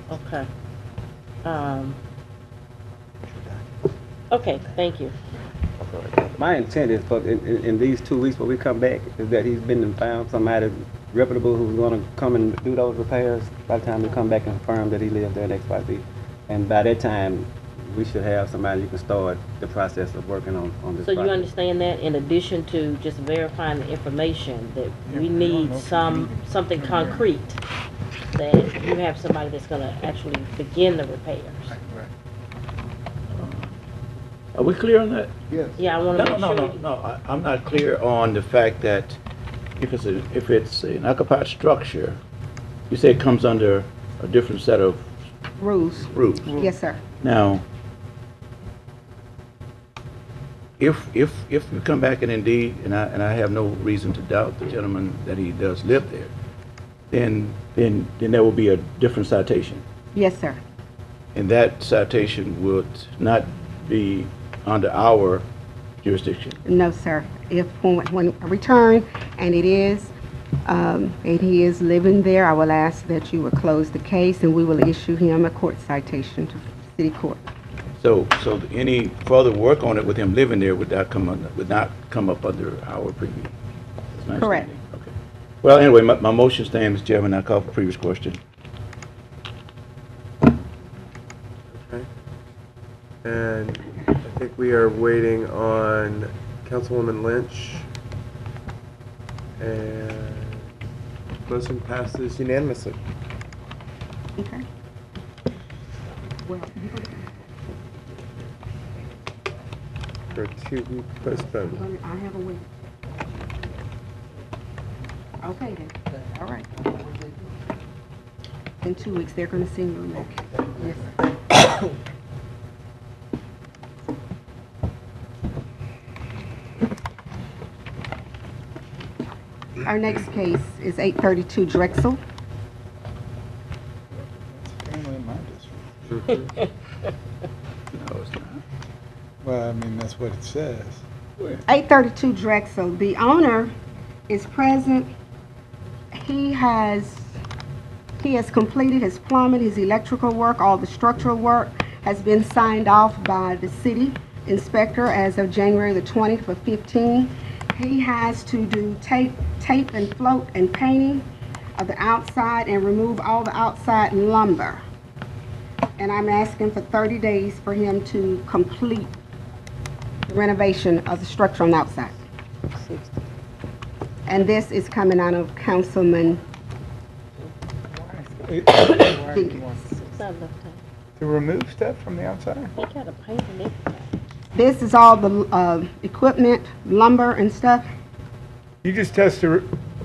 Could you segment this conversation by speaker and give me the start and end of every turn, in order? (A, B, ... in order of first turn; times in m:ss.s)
0:00.1-0:00.5 A
0:01.4-0:02.0 A
0:04.3-0:05.2 A
0:06.4-0:21.5 B
0:21.0-0:27.6 A
0:25.1-0:27.3 C
0:28.3-0:31.7 A
0:31.7-0:32.1 C
0:33.3-0:33.7 D
0:34.6-0:35.4 D
0:35.5-0:35.8 C
0:35.8-0:36.8 A
0:36.1-0:39.2 D
0:39.8-0:42.2 D
0:42.9-0:45.1 D
0:45.6-0:47.0 E
0:46.0-0:46.6 D
0:47.2-0:47.6 D
0:50.8-0:56.3 D
0:57.1-0:59.8 D
1:00.1-1:00.6 E
1:01.4-1:05.4 D
1:06.0-1:06.6 D
1:06.7-1:10.1 E
1:10.7-1:17.4 E
1:18.0-1:23.5 D
1:24.2-1:28.4 D
1:24.4-1:24.7 E
1:31.7-1:32.1 F
1:33.2-1:37.8 F
1:39.6-1:40.7 F
1:41.5-1:43.0 F
1:44.4-1:44.6 E
1:46.5-1:47.3 E
1:50.4-1:51.8 F
1:51.7-1:52.6 E
1:55.4-1:56.7 E
1:58.8-2:01.1 E
2:09.8-2:12.2 E
2:14.1-2:16.3 C
2:17.9-2:18.6 D
2:19.4-2:21.0 C
2:21.7-2:23.7 E
2:24.3-2:25.1 E
2:26.1-2:27.4 E
2:28.2-2:41.3 E
2:41.8-2:44.8 E
2:46.0-2:49.1 E
2:50.3-2:52.2 E
2:52.8-2:53.2 A
2:54.3-2:56.4 E
2:57.9-3:00.0 C
2:59.2-2:59.6 E
3:00.0-3:00.8 A
3:01.2-3:02.7 C
3:02.8-3:04.1 A
3:04.6-3:07.8 E
3:08.8-3:09.7 C